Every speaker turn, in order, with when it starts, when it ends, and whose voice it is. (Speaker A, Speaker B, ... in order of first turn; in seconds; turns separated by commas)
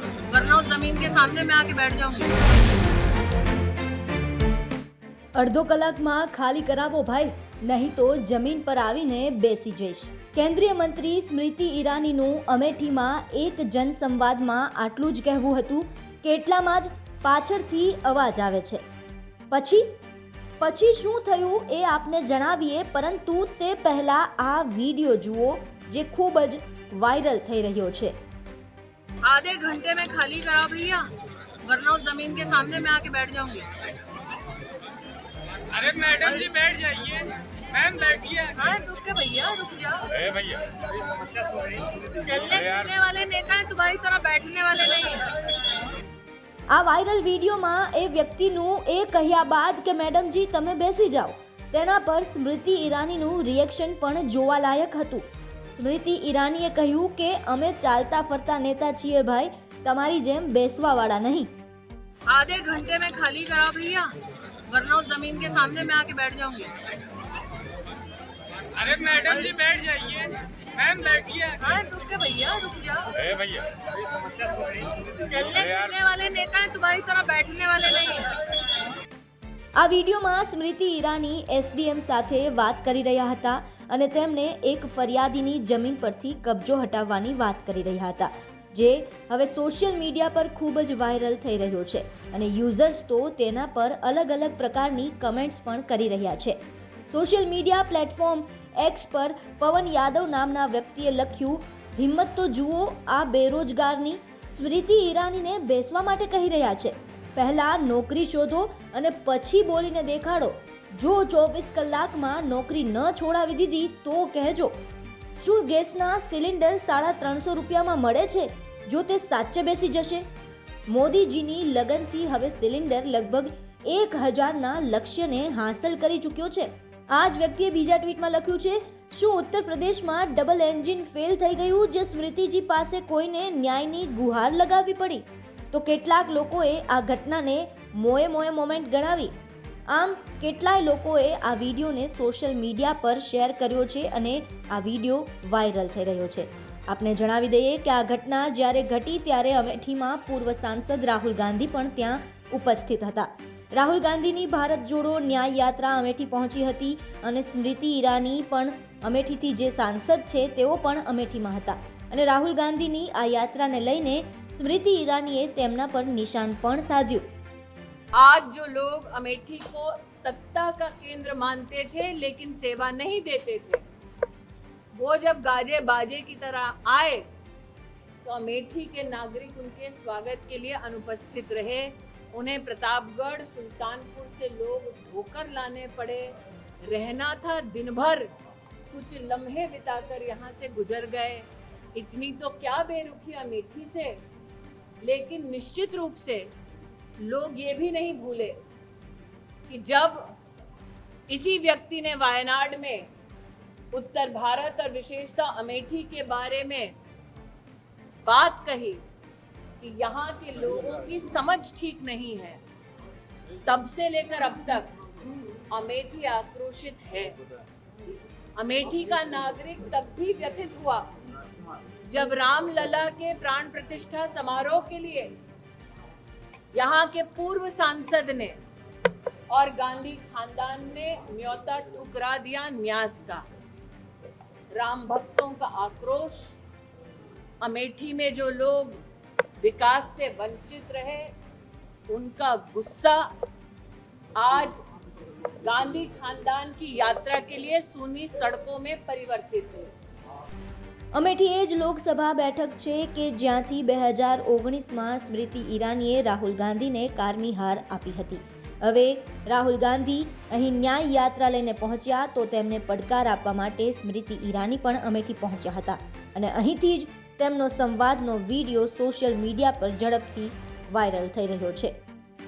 Speaker A: 0.3-2.4, Speaker B: 5.4-18.8, Speaker B: 19.5-19.9, Speaker B: 20.6-28.2, Speaker A: 29.2-31.1, Speaker A: 31.6-33.7, Speaker C: 35.6-38.5, Speaker A: 36.2-36.6, Speaker A: 38.5-40.6, Speaker C: 40.8-42.0, Speaker A: 42.0-45.3, Speaker B: 46.7-61.5, Speaker A: 62.3-66.7, Speaker C: 68.6-71.6, Speaker A: 69.1-69.6, Speaker A: 71.6-73.5, Speaker C: 73.6-75.1, Speaker A: 75.2-78.3, Speaker B: 79.8-96.6, Speaker B: 97.1-114.8, Speaker B: 115.4-120.3, Speaker B: 120.9-139.3, Speaker B: 139.9-167.3, Speaker A: 168.2-173.8, Speaker A: 174.9-177.3, Speaker A: 178.2-188.3, Speaker A: 188.9-194.2, Speaker A: 195.0-196.5, Speaker A: 197.2-198.6, Speaker A: 199.7-200.3, Speaker A: 201.3-203.1, Speaker A: 203.9-206.9, Speaker A: 208.3-209.0, Speaker A: 209.8-212.6, Speaker A: 213.7-214.9, Speaker A: 215.7-217.4, Speaker A: 218.6-221.1, Speaker A: 222.1-225.3, Speaker A: 226.7-228.6, Speaker A: 229.5-233.4, Speaker A: 234.7-236.6, Speaker A: 237.6-239.0, Speaker A: 239.6-241.3, Speaker A: 242.1-243.3, Speaker A: 244.4-244.8, Speaker A: 245.6-249.9, Speaker B: 251.1-272.0